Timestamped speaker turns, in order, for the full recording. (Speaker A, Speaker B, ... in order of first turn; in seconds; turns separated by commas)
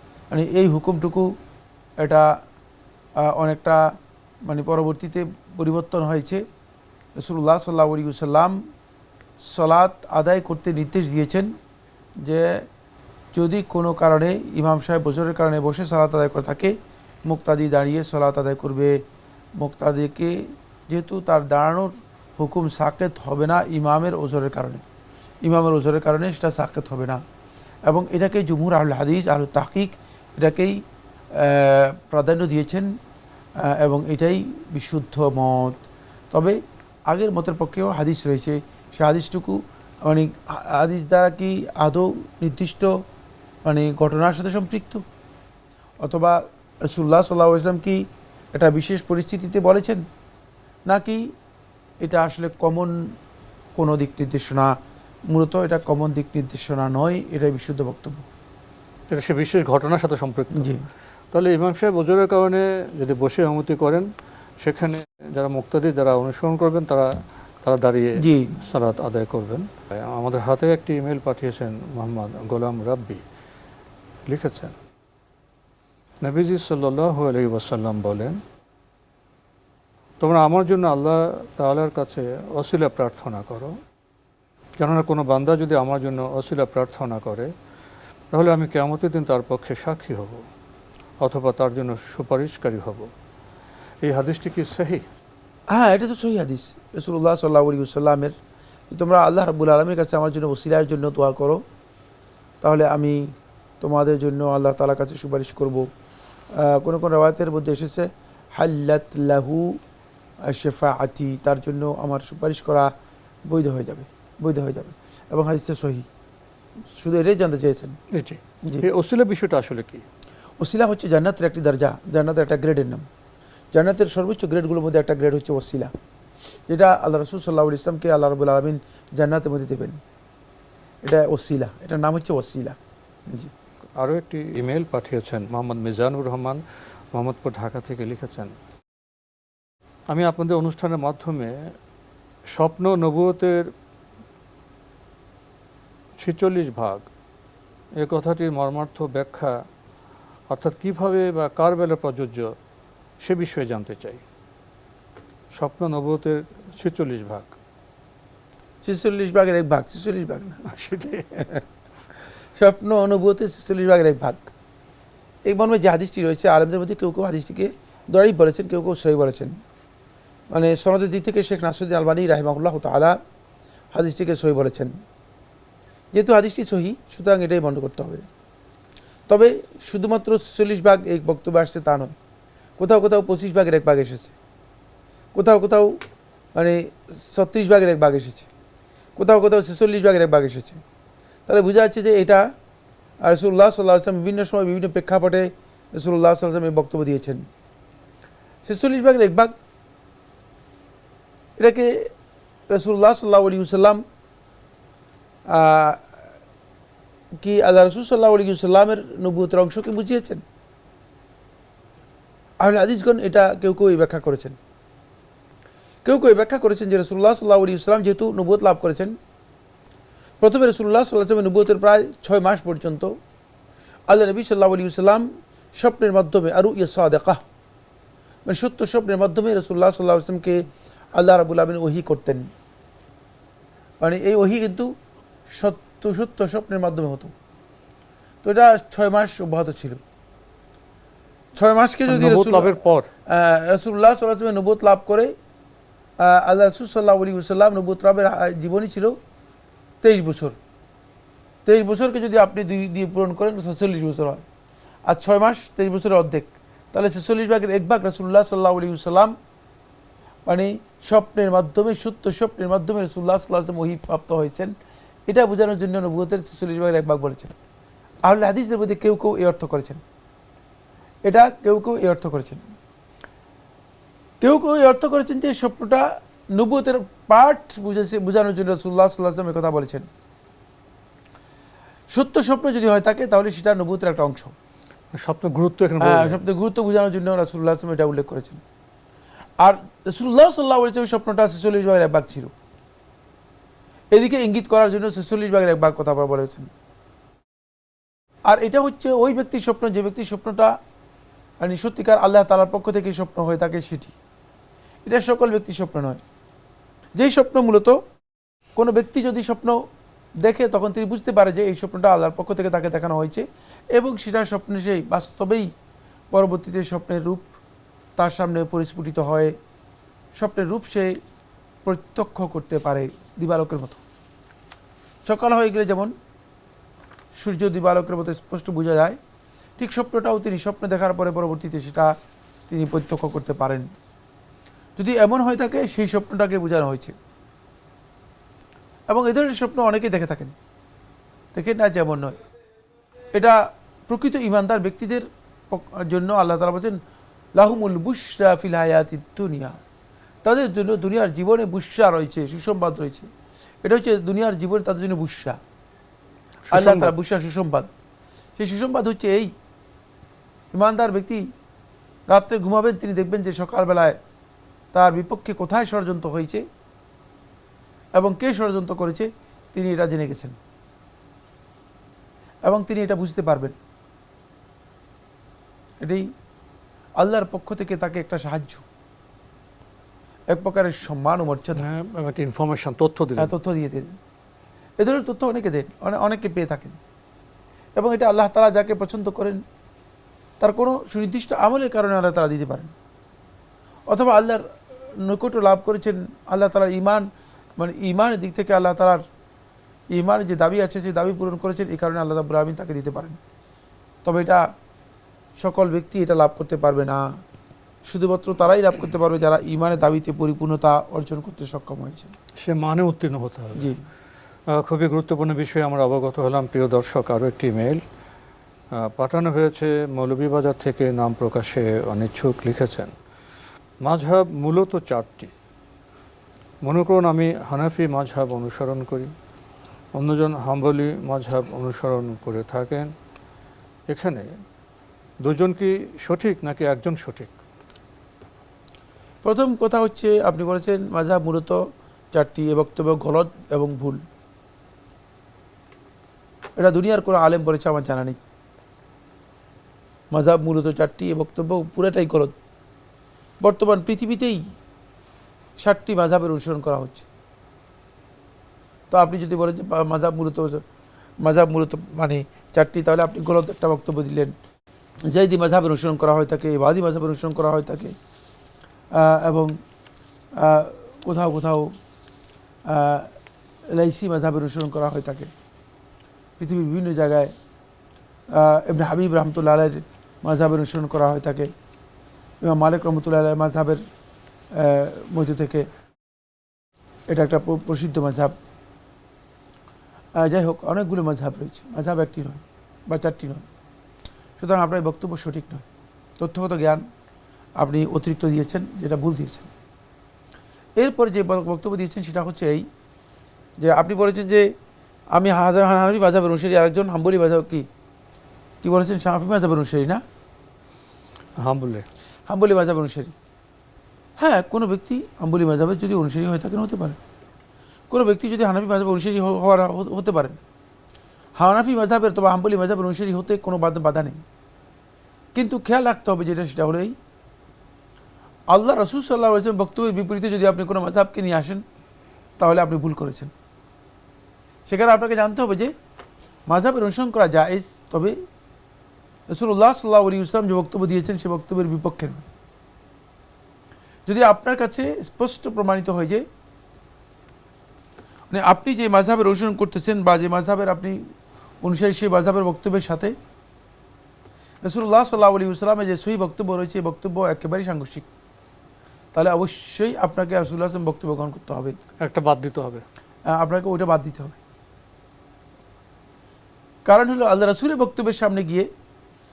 Speaker A: 0.3-1.3, Speaker A: 2.0-2.3, Speaker A: 3.2-3.8, Speaker A: 4.4-6.4, Speaker A: 7.2-8.6, Speaker A: 9.4-11.5, Speaker A: 12.2-12.6, Speaker A: 13.3-16.7, Speaker A: 17.2-19.0, Speaker A: 19.6-24.8, Speaker A: 25.4-27.2, Speaker A: 27.9-30.8, Speaker A: 31.4-32.9, Speaker A: 33.7-36.6, Speaker A: 37.1-42.9, Speaker A: 43.6-45.0, Speaker A: 46.0-50.0, Speaker A: 50.9-51.3, Speaker A: 52.0-53.1, Speaker A: 53.8-54.7, Speaker A: 55.3-58.2, Speaker B: 59.1-60.7, Speaker A: 60.5-60.9, Speaker B: 61.3-64.1, Speaker B: 64.6-67.1, Speaker B: 67.6-73.2, Speaker A: 68.2-68.6, Speaker B: 74.3-74.8, Speaker B: 76.2-78.4, Speaker B: 80.2-83.8, Speaker B: 84.8-87.5, Speaker B: 88.3-90.4, Speaker B: 91.2-93.1, Speaker B: 94.0-95.0, Speaker A: 95.7-98.3, Speaker A: 98.9-101.6, Speaker A: 102.6-105.9, Speaker A: 106.6-109.8, Speaker A: 110.5-112.9, Speaker A: 113.5-116.1, Speaker A: 116.9-118.0, Speaker B: 118.1-120.0, Speaker A: 120.6-123.1, Speaker A: 123.7-125.9, Speaker A: 126.7-130.0, Speaker A: 131.0-132.8, Speaker B: 134.0-136.6, Speaker B: 137.1-138.5, Speaker B: 140.1-141.7, Speaker B: 142.5-143.7, Speaker B: 146.2-147.1, Speaker B: 148.0-149.6, Speaker B: 150.5-152.5, Speaker B: 153.2-154.2, Speaker B: 155.5-157.5, Speaker A: 158.8-160.6, Speaker B: 160.6-161.6, Speaker A: 162.6-164.5, Speaker A: 165.4-169.5, Speaker A: 170.5-173.2, Speaker A: 173.9-174.9, Speaker A: 176.1-178.2, Speaker A: 179.3-182.1, Speaker A: 182.8-184.3, Speaker A: 185.3-186.0, Speaker A: 186.5-188.5, Speaker A: 189.2-190.8, Speaker A: 191.5-192.4, Speaker A: 193.2-197.4, Speaker A: 198.6-199.5, Speaker A: 201.6-202.1, Speaker A: 202.7-204.0, Speaker A: 205.5-206.1, Speaker A: 207.4-210.4, Speaker A: 212.6-214.6, Speaker A: 216.0-219.2, Speaker A: 220.4-223.2, Speaker A: 224.1-227.4, Speaker A: 228.4-230.6, Speaker A: 231.2-232.5, Speaker A: 234.0-234.9, Speaker A: 235.5-237.3, Speaker A: 238.4-240.0, Speaker A: 241.5-242.8, Speaker B: 242.1-243.1, Speaker A: 243.3-245.3, Speaker A: 246.2-249.2, Speaker A: 250.0-250.6, Speaker A: 251.7-254.4, Speaker A: 255.1-259.3, Speaker A: 260.4-264.7, Speaker A: 265.3-267.5, Speaker A: 268.2-270.0, Speaker A: 271.2-272.6, Speaker A: 274.4-280.1, Speaker A: 282.1-284.5, Speaker B: 285.1-286.4, Speaker A: 286.0-288.6, Speaker A: 289.6-292.5, Speaker A: 294.1-296.7, Speaker A: 298.5-300.7, Speaker A: 301.6-304.1, Speaker A: 305.1-306.2, Speaker A: 307.2-308.0, Speaker A: 308.8-309.8, Speaker A: 310.4-315.7, Speaker A: 316.3-317.5, Speaker A: 318.2-319.5, Speaker A: 320.4-321.2, Speaker A: 321.8-324.0, Speaker A: 325.2-326.1, Speaker A: 327.4-329.2, Speaker A: 329.8-332.1, Speaker A: 332.7-333.9, Speaker A: 335.0-337.1, Speaker A: 339.1-340.5, Speaker A: 341.5-342.4, Speaker A: 343.3-347.0, Speaker A: 347.6-349.8, Speaker A: 350.4-353.3, Speaker A: 353.8-355.6, Speaker B: 356.7-357.1, Speaker A: 356.7-357.9, Speaker A: 358.6-359.5, Speaker A: 360.7-361.4, Speaker A: 362.3-364.2, Speaker A: 364.9-366.6, Speaker A: 368.1-370.6, Speaker A: 372.6-373.8, Speaker A: 377.2-378.8, Speaker A: 380.5-381.8, Speaker B: 381.8-383.5, Speaker A: 383.4-384.2, Speaker A: 385.0-387.0, Speaker A: 388.0-389.6, Speaker A: 390.6-392.9, Speaker A: 394.1-394.6, Speaker A: 395.2-397.3, Speaker A: 397.8-399.2, Speaker A: 400.1-403.4, Speaker A: 404.2-404.6, Speaker A: 405.6-407.2, Speaker A: 408.1-412.3, Speaker B: 412.6-413.9, Speaker A: 413.8-414.0, Speaker B: 414.7-418.0, Speaker B: 418.9-423.1, Speaker B: 424.0-425.5, Speaker B: 426.8-429.3, Speaker B: 430.1-433.1, Speaker B: 434.1-434.5, Speaker B: 435.4-437.5, Speaker A: 439.4-441.8, Speaker A: 442.3-444.2, Speaker A: 446.8-448.4, Speaker A: 450.3-452.6, Speaker A: 453.6-454.6, Speaker A: 455.8-457.3, Speaker A: 459.1-460.8, Speaker A: 461.4-464.5, Speaker A: 465.3-468.1, Speaker A: 469.1-469.8, Speaker A: 470.6-471.9, Speaker A: 472.9-473.3, Speaker A: 473.9-475.5, Speaker A: 476.6-477.5, Speaker A: 478.5-481.7, Speaker A: 482.6-484.0, Speaker A: 484.8-485.9, Speaker A: 487.3-488.5, Speaker A: 490.4-493.6, Speaker A: 494.6-495.9, Speaker A: 496.4-497.0, Speaker A: 497.8-499.7, Speaker A: 501.0-502.8, Speaker A: 503.8-504.6, Speaker A: 505.3-507.9, Speaker A: 508.8-510.2, Speaker B: 511.6-512.0, Speaker A: 512.5-513.3, Speaker A: 514.4-517.2, Speaker A: 518.1-520.6, Speaker A: 521.6-524.4, Speaker A: 525.5-527.1, Speaker A: 528.7-531.8, Speaker A: 532.6-533.5, Speaker A: 534.9-535.9, Speaker A: 536.7-538.3, Speaker A: 539.5-542.5, Speaker A: 544.2-546.4, Speaker A: 548.5-551.2, Speaker A: 551.8-553.3, Speaker A: 554.8-558.3, Speaker A: 559.3-561.9, Speaker B: 562.2-563.0, Speaker A: 563.5-564.6, Speaker A: 567.0-568.9